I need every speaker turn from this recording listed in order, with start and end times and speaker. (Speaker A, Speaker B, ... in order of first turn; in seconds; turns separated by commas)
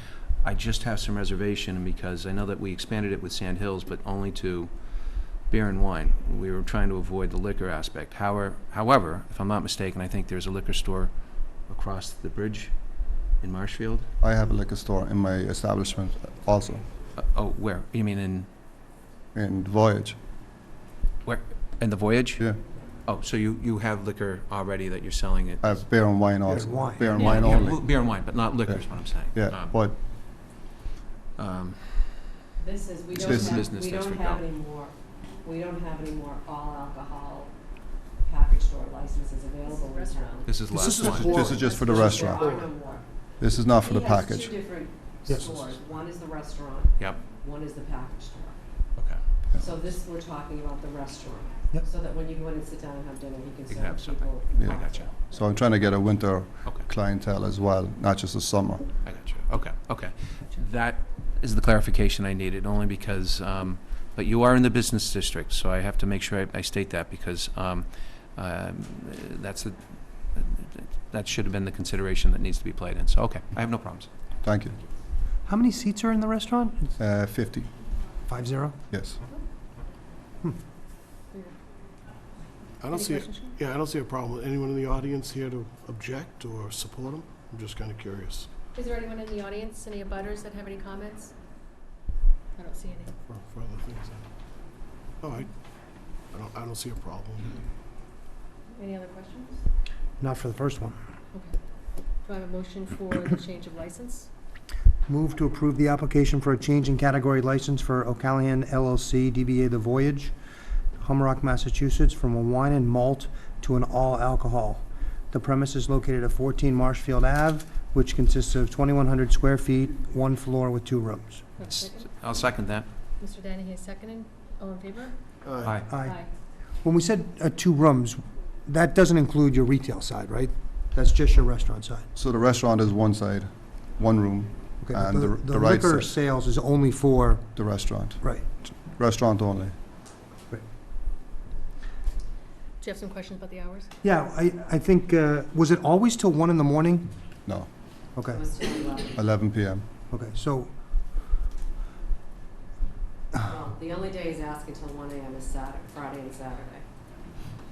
Speaker A: 0.4-4.7, Speaker A: 5.5-12.8, Speaker A: 13.3-14.1, Speaker B: 14.2-16.9, Speaker A: 17.1-18.5, Speaker B: 19.3-20.2, Speaker A: 21.2-22.4, Speaker A: 23.0-25.8, Speaker B: 25.6-27.9, Speaker C: 26.5-27.6, Speaker A: 27.1-29.7, Speaker B: 29.3-30.0, Speaker A: 31.4-32.4, Speaker D: 32.6-37.5, Speaker A: 33.1-34.5, Speaker B: 33.2-33.7, Speaker D: 38.2-40.6, Speaker E: 39.6-42.4, Speaker A: 40.5-41.5, Speaker C: 40.7-42.6, Speaker B: 41.0-42.6, Speaker D: 41.1-43.1, Speaker B: 43.4-44.6, Speaker D: 43.8-48.6, Speaker C: 45.2-45.6, Speaker D: 49.6-55.5, Speaker A: 53.7-55.1, Speaker B: 54.5-58.9, Speaker A: 59.0-74.1, Speaker B: 74.4-74.8, Speaker C: 75.5-76.9, Speaker B: 77.0-77.7, Speaker C: 78.2-78.8, Speaker B: 78.9-79.2, Speaker F: 82.8-88.5, Speaker E: 82.9-83.6, Speaker E: 88.7-91.3, Speaker E: 92.5-93.1, Speaker F: 93.3-94.2, Speaker F: 95.2-95.5, Speaker F: 96.3-97.6, Speaker E: 98.7-99.6, Speaker C: 100.2-101.0, Speaker E: 102.2-104.3, Speaker C: 105.1-110.3, Speaker C: 111.0-121.5, Speaker E: 121.6-122.0, Speaker A: 121.6-122.9, Speaker E: 123.2-125.2, Speaker F: 125.4-125.8, Speaker A: 125.6-125.9, Speaker C: 125.9-126.2, Speaker E: 125.9-126.3, Speaker C: 126.8-132.0, Speaker B: 132.2-136.1, Speaker C: 134.8-137.4, Speaker B: 137.5-139.7, Speaker E: 142.8-143.9, Speaker C: 144.0-147.1, Speaker C: 148.2-148.4, Speaker D: 148.3-149.2, Speaker B: 149.1-149.8, Speaker C: 150.1-150.7, Speaker D: 153.3-156.8